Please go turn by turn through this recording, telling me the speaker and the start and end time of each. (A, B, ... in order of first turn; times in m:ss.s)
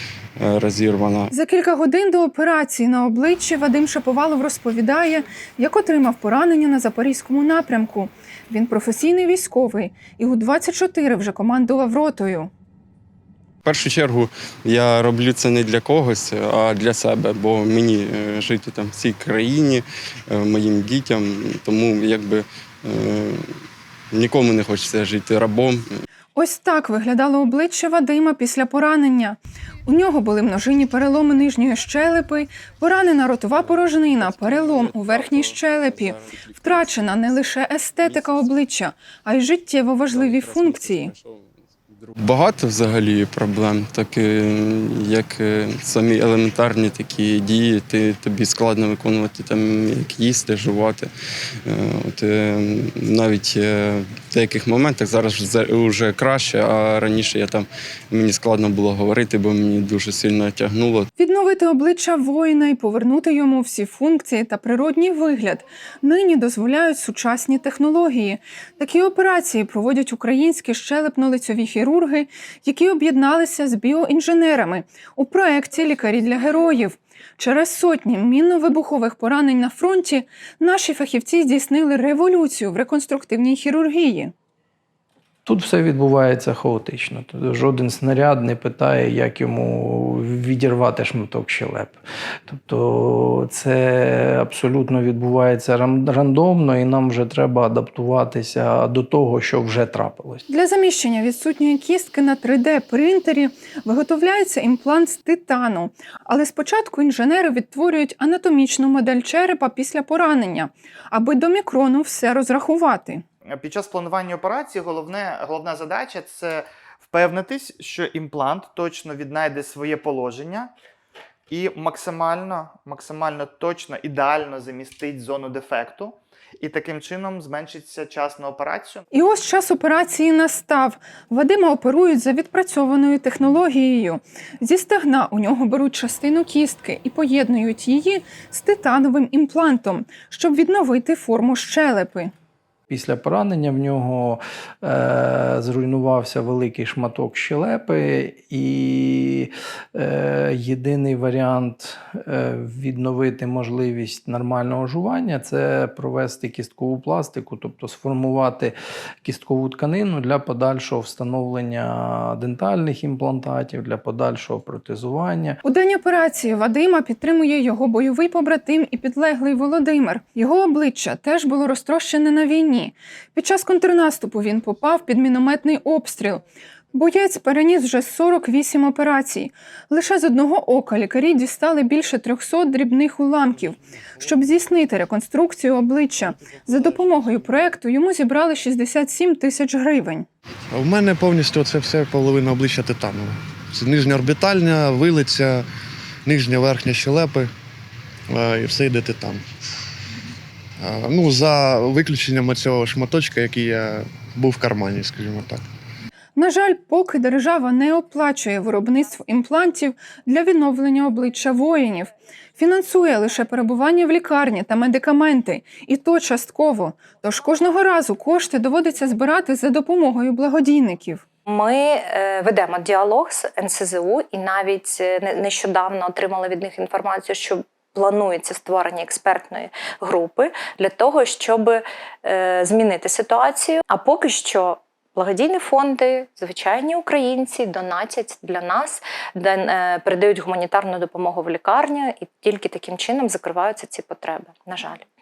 0:00.4-0:01.3 A
0:01.3-0:12.5 B
0:13.6-0:23.5 A
0:24.1-0:25.8 A
0:26.3-0:41.1 B
0:33.6-0:37.0 A
0:38.0-0:38.5 A
0:40.1-0:51.1 A
0:51.6-1:01.1 A
1:01.2-1:24.3 B
1:25.4-1:32.0 C
1:32.5-1:40.4 C
1:40.5-1:53.2 B
1:53.5-2:00.7 D
2:01.5-2:09.1 D
2:09.1-2:22.3 B
2:22.9-2:45.6 C
2:45.6-3:10.2 B
3:10.7-3:15.6 E
3:16.2-3:17.5 E
3:18.3-3:19.4 E
3:20.8-3:25.6 E
3:26.4-3:41.2 B
3:41.5-4:05.0 F